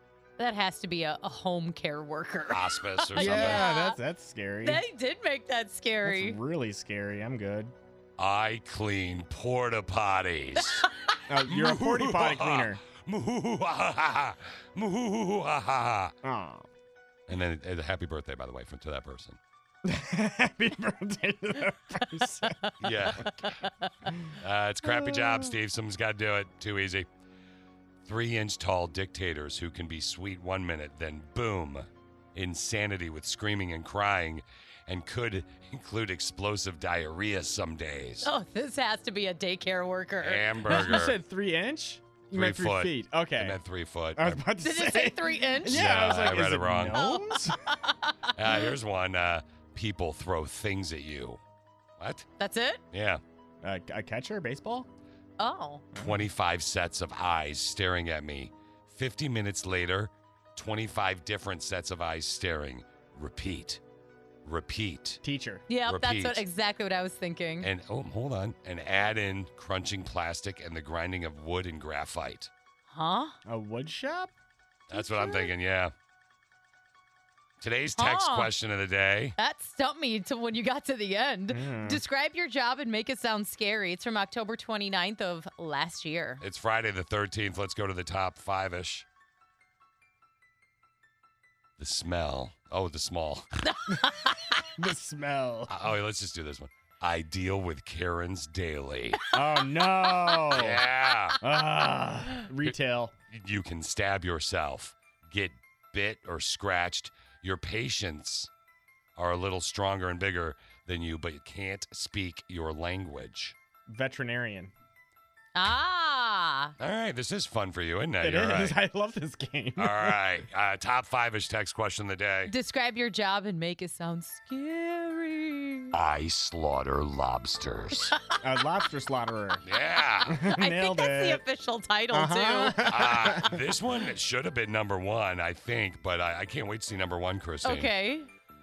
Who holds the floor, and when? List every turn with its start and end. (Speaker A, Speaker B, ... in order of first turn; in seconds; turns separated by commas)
Speaker A: 0.4-4.0, Speaker B: 2.5-3.7, Speaker C: 3.2-4.8, Speaker A: 4.6-6.4, Speaker C: 6.0-7.7, Speaker B: 8.2-10.9, Speaker C: 11.3-12.8, Speaker B: 11.5-16.1, Speaker C: 16.2-16.7, Speaker B: 17.3-19.4, Speaker C: 19.9-22.6, Speaker B: 22.8-23.6, Speaker A: 23.4-24.1, Speaker B: 24.4-27.1, Speaker B: 28.1-38.3, Speaker A: 38.2-41.0, Speaker B: 40.2-41.2, Speaker C: 40.7-43.6, Speaker B: 42.3-44.5, Speaker C: 44.2-47.6, Speaker A: 44.6-45.9, Speaker B: 45.7-47.0, Speaker A: 46.9-48.1, Speaker B: 48.4-51.4, Speaker B: 52.0-52.3, Speaker A: 52.4-52.8, Speaker B: 52.9-53.2, Speaker C: 53.6-54.9, Speaker A: 55.4-55.9, Speaker C: 55.9-56.3, Speaker B: 56.0-63.8, Speaker B: 64.5-65.2, Speaker C: 65.2-65.6, Speaker A: 65.7-67.7, Speaker B: 65.9-66.4, Speaker B: 67.6-72.5, Speaker A: 72.9-73.4, Speaker C: 73.5-74.3, Speaker B: 74.9-75.9, Speaker A: 74.9-75.5, Speaker B: 77.6-79.3, Speaker A: 78.0-78.5, Speaker A: 79.4-86.4, Speaker C: 81.5-82.0, Speaker B: 86.4-89.0, Speaker B: 91.8-93.5, Speaker A: 93.7-94.5, Speaker C: 94.8-95.7, Speaker B: 95.7-99.2, Speaker C: 99.3-100.8, Speaker B: 100.5-101.4, Speaker C: 101.4-103.1, Speaker B: 103.3-108.5, Speaker B: 109.2-113.6, Speaker C: 113.9-114.7, Speaker A: 115.5-116.7, Speaker B: 116.8-118.8, Speaker C: 118.2-120.2, Speaker B: 119.8-122.5, Speaker A: 122.5-125.9, Speaker B: 125.9-128.2, Speaker C: 128.4-129.6, Speaker B: 129.7-130.4, Speaker C: 130.3-131.4, Speaker A: 130.6-133.1, Speaker C: 132.1-133.6, Speaker B: 132.9-137.9, Speaker A: 137.7-138.3